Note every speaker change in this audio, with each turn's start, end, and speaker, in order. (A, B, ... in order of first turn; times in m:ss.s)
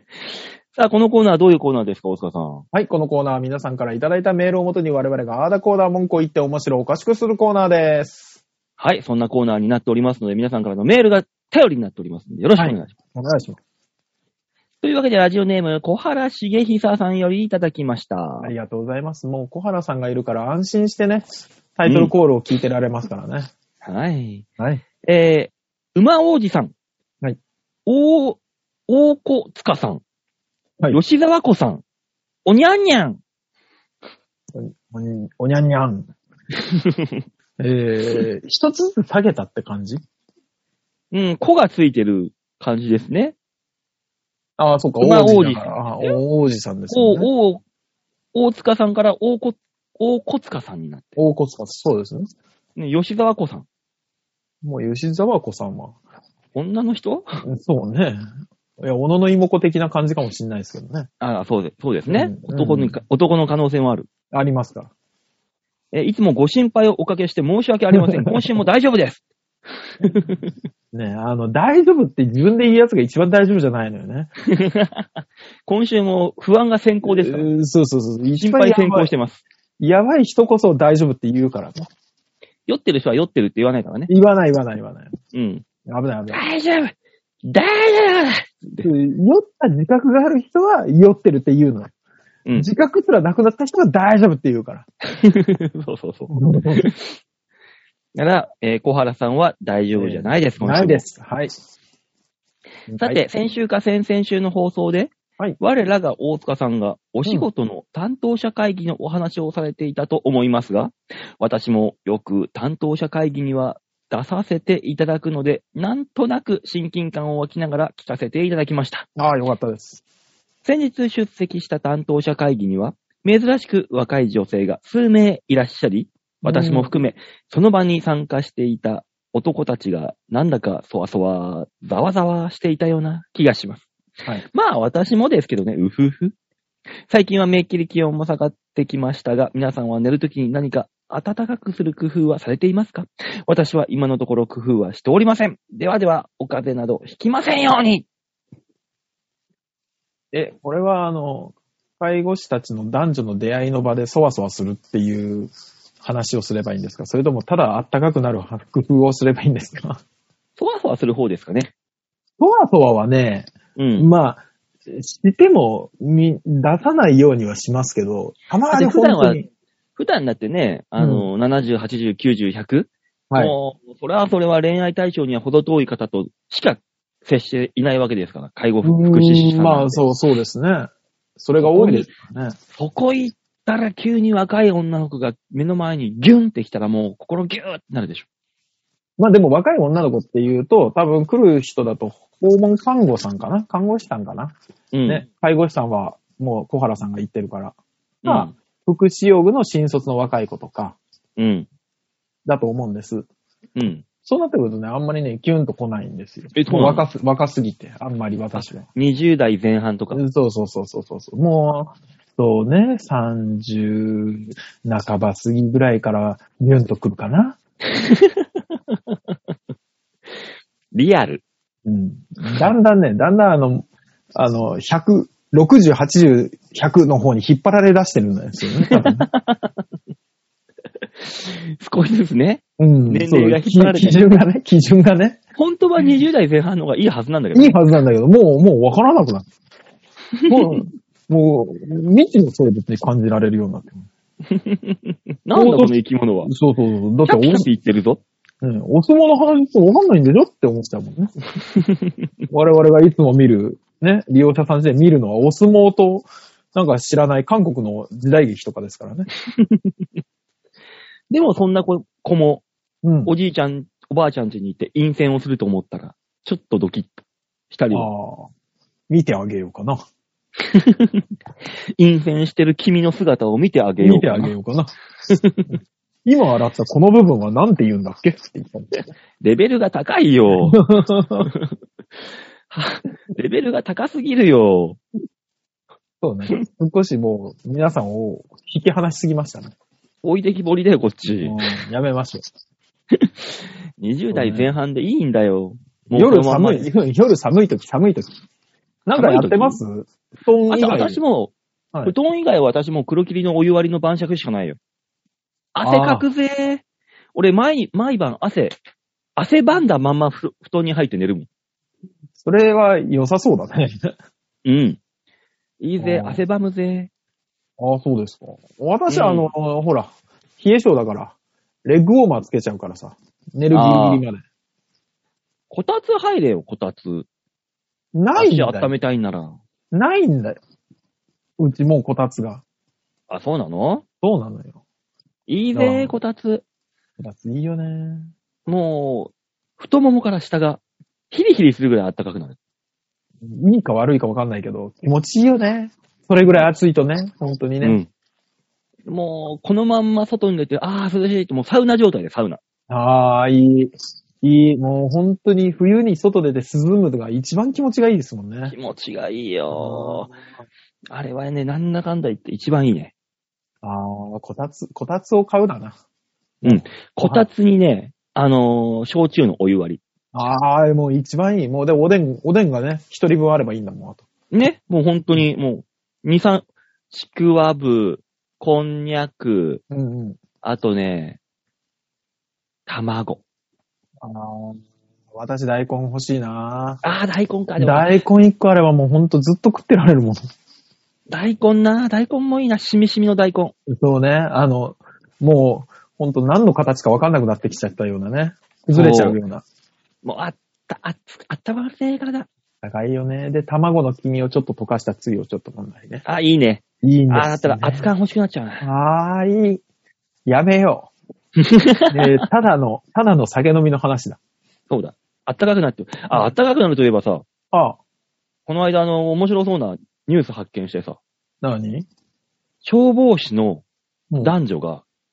0:00.7-0:02.6 A
0:02.7-0:08.4 B
0:08.8-0:12.9 A
0:12.6-0:13.6 B
0:14.8-0:18.5 A
0:18.4-0:23.5 B
0:21.8-0:22.1 A
0:23.8-0:24.4 A
0:24.6-0:24.8 B
0:25.0-0:26.7 A
0:27.8-0:30.0 A
0:30.9-0:31.8 A
0:32.4-0:33.2 A
0:34.5-0:36.1 B
0:36.6-0:37.2 A
0:37.6-0:40.0 B
0:41.1-0:43.3 A
0:44.6-0:47.3 B
0:45.0-0:46.1 A
0:46.9-0:47.6 A
0:48.3-0:51.2 A
0:51.2-0:52.3 B
0:52.8-0:53.6 A
0:54.6-0:56.0 B
0:56.5-0:57.4 A
0:57.4-0:58.2 B
0:58.8-1:01.1 B
1:01.2-1:04.1 A
1:02.1-1:02.9 B
1:04.3-1:04.9 B
1:05.9-1:09.2 A
1:07.9-1:08.4 B
1:10.0-1:10.5 A
1:10.9-1:14.3 B
1:14.5-1:17.5 A
1:17.0-1:19.1 B
1:18.4-1:19.4 A
1:19.8-1:21.9 B
1:22.7-1:24.1 A
1:24.1-1:25.1 B
1:25.3-1:25.6 A
1:25.8-1:26.4 B
1:26.3-1:28.9 A
1:28.8-1:31.9 B
1:32.6-1:34.8 B
1:35.1-1:37.2 A
1:36.3-1:36.8 B
1:38.1-1:41.0 A
1:39.9-1:41.5 B
1:42.9-1:43.2 B
1:43.0-1:59.0 A
1:59.2-2:00.0 B
2:00.6-2:13.9 A
2:06.4-2:06.9 B
2:14.5-2:16.3 A
2:17.1-2:28.1 A
2:30.3-2:40.0 B
2:40.6-2:41.7 A
2:42.4-2:49.4 B
2:43.8-2:44.1 A
2:48.7-2:49.4 A
2:50.0-3:00.1 A
2:51.0-2:51.3 B
2:53.3-2:53.5 B
2:58.8-3:02.6 B
3:01.6-3:02.1 A
3:02.7-3:08.2 A
3:09.2-3:14.5 B
3:14.9-3:15.2 A
3:15.1-3:21.0 B
3:18.2-3:18.5 A
3:21.4-3:21.7 A
3:22.4-3:23.2 B
3:23.8-3:24.0 A
3:24.2-3:28.8 B
3:26.5-3:27.0 A
3:28.5-3:30.2 A
3:30.1-3:37.6 B
3:37.9-3:38.4 A
3:40.9-3:41.4 A
3:41.8-3:49.3 B
3:42.4-3:42.7 A
3:48.8-3:49.7 A
3:51.2-3:54.3 A
3:52.8-3:55.4 B
3:55.6-3:57.8 A
3:57.5-3:59.4 B
4:00.4-4:00.8 A
4:00.5-4:04.1 B
4:04.5-4:06.5 A
4:05.5-4:07.7 B
4:07.2-4:08.2 A
4:08.6-4:11.3 B
4:11.7-4:12.3 A
4:12.5-4:19.3 B
4:19.6-4:19.9 A
4:21.3-4:22.6 A
4:23.0-4:23.3 B
4:23.2-4:27.1 A
4:27.7-4:28.1 A
4:27.9-4:28.5 B
4:29.1-4:30.0 B
4:30.6-4:31.2 A
4:32.0-4:34.5 A
4:34.0-4:34.9 B
4:35.3-4:35.7 A
4:36.2-4:38.9 B
4:39.4-4:40.8 A
4:40.6-4:41.5 B
4:41.4-4:41.7 A
4:42.7-4:45.0 A
4:46.2-4:49.7 B
4:50.2-4:51.6 A
4:51.4-4:52.4 B
4:53.1-4:56.9 A
4:54.3-4:54.7 B
4:56.1-4:58.4 B
4:59.1-5:01.2 B
4:59.1-4:59.8 A
5:00.7-5:04.8 A
5:05.7-5:06.8 A
5:05.8-5:06.2 B
5:07.3-5:08.8 A
5:09.4-5:11.5 A
5:12.4-5:14.1 B
5:14.6-5:15.0 A
5:15.8-5:17.1 A
5:16.0-5:16.4 B
5:17.8-5:24.4 B
5:19.1-5:19.5 A
5:23.7-5:24.2 A
5:25.7-5:27.3 A
5:28.1-5:28.9 B
5:28.3-5:29.6 A
5:29.9-5:30.6 B
5:31.6-5:32.6 B
5:33.3-5:34.0 A
5:34.2-5:34.8 B
5:35.5-5:36.6 A
5:35.7-5:36.2 B
5:37.2-5:38.3 B
5:38.6-5:42.6 A
5:43.4-5:48.0 B
5:47.8-5:48.1 A
5:49.1-5:52.6 A
5:52.9-5:58.7 B
5:58.7-6:00.3 A
5:59.7-6:00.4 B
6:01.1-6:03.1 A
6:03.8-6:06.0 B
6:06.6-6:07.5 B
6:06.6-6:10.0 A
6:10.3-6:14.2 B
6:14.5-6:19.8 A
6:19.9-6:20.4 B
6:20.6-6:21.4 A
6:22.9-6:23.4 A
6:24.2-6:24.8 B
6:25.3-6:27.0 B
6:27.0-6:28.2 A
6:27.8-6:30.4 B
6:31.3-6:33.7 A
6:33.9-6:39.6 B
6:38.9-6:39.4 A
6:40.2-6:42.5 A
6:42.8-6:46.2 B
6:46.2-6:48.8 A
6:47.0-6:48.1 B
6:48.8-6:49.8 B
6:50.4-6:51.1 B
6:51.6-6:52.4 A
6:52.1-6:54.4 B
6:54.9-6:57.4 A
6:57.7-6:58.0 B
6:58.7-7:01.2 A
7:01.6-7:02.1 B
7:02.8-7:03.8 A
7:04.4-7:05.0 A